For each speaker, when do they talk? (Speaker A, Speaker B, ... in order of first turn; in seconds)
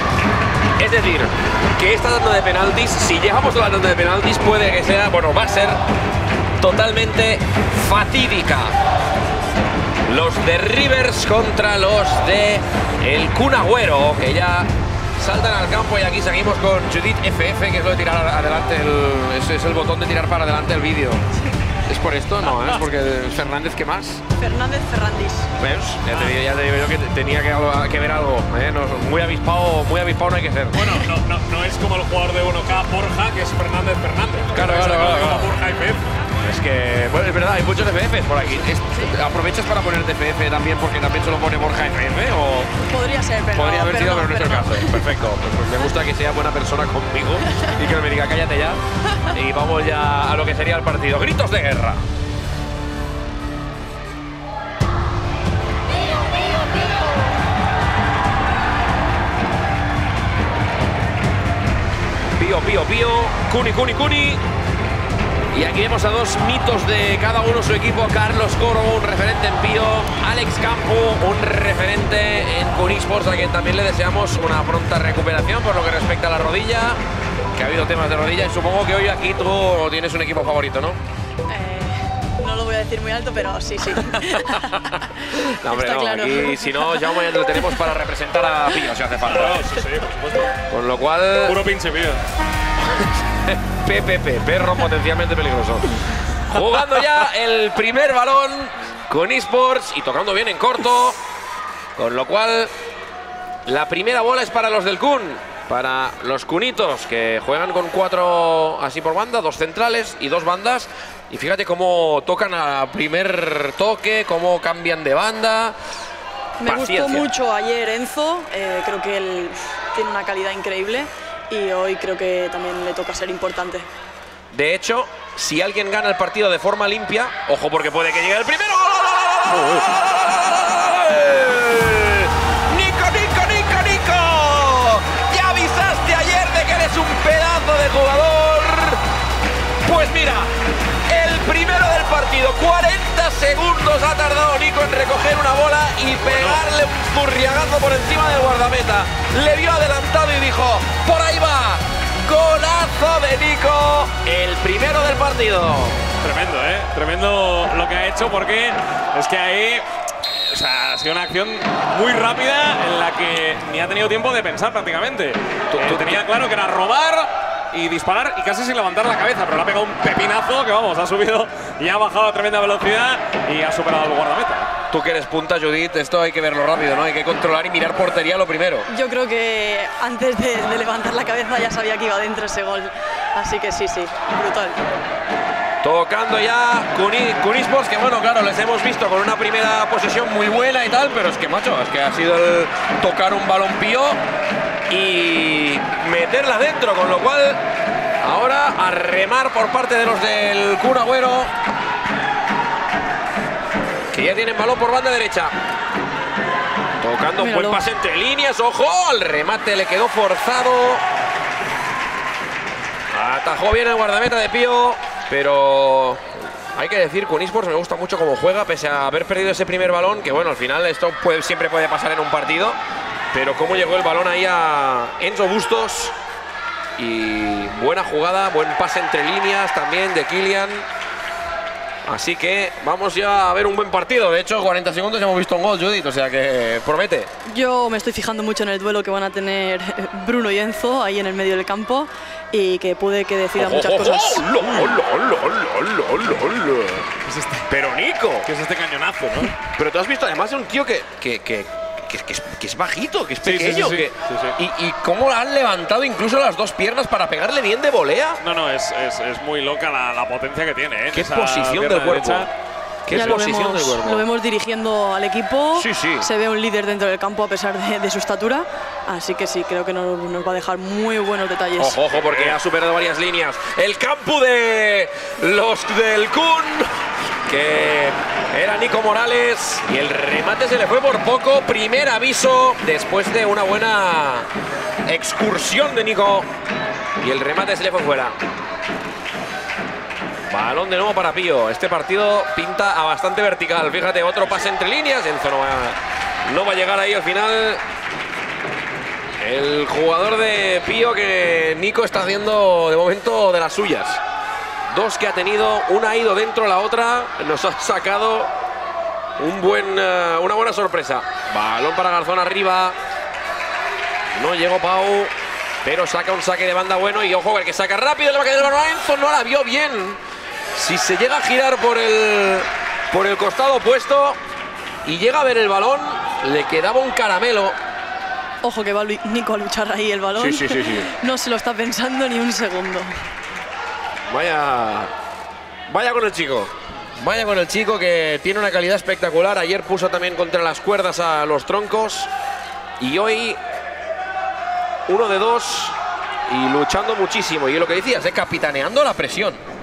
Speaker A: 0.8-5.8, 6.6-8.7, 10.1-14.7, 15.2-21.2, 21.9-24.2, 25.6-30.8, 34.5-35.5, 36.4-42.7, 43.5-48.8, 49.3-52.0, 62.4-64.4, 65.5-77.0, 77.5-81.0, 85.5-89.6, 90.7-91.6, 93.0-95.9, 96.4-101.2, 102.0-102.7, 103.7-115.8, 116.6-117.3, 124.5-139.0, 139.8-140.5, 141.1-156.0, 165.7-166.2, 174.9-178.9, 185.8-194.2, 194.9-197.6, 198.2-201.5, 204.1-205.5, 207.0-211.0, 213.1-222.8, 223.3-226.1, 227.0-230.8, 232.1-237.3, 243.6-247.1, 247.7-248.5, 249.7-258.4, 261.1-262.5, 263.1-264.2, 265.7-266.3, 271.8-276.9, 277.5-284.5, 285.1-286.5, 287.2-288.3, 290.5-297.8, 299.4-304.2, 304.9-308.5, 309.4-312.9, 314.3-315.3, 315.8-320.2, 320.7-324.4, 325.1-327.8, 330.4-331.1, 334.3-335.1, 335.9-342.3, 343.0-343.6, 345.1-345.9, 346.5-349.6
Speaker B: 24.4-25.5, 42.9-45.0, 81.5-87.2, 116.6-123.9, 178.9-184.8, 207.4-207.8, 237.5-244.5, 263.1-272.0, 328.6-333.1
Speaker C: 26.1-26.4, 30.7-36.0, 89.2-90.5, 91.4-92.2, 129.5-129.8, 146.2-146.6, 156.2-159.8, 160.4-174.7, 244.6-244.9, 247.2-247.7, 248.4-249.6, 253.4-254.5, 258.4-262.5, 272.1-272.6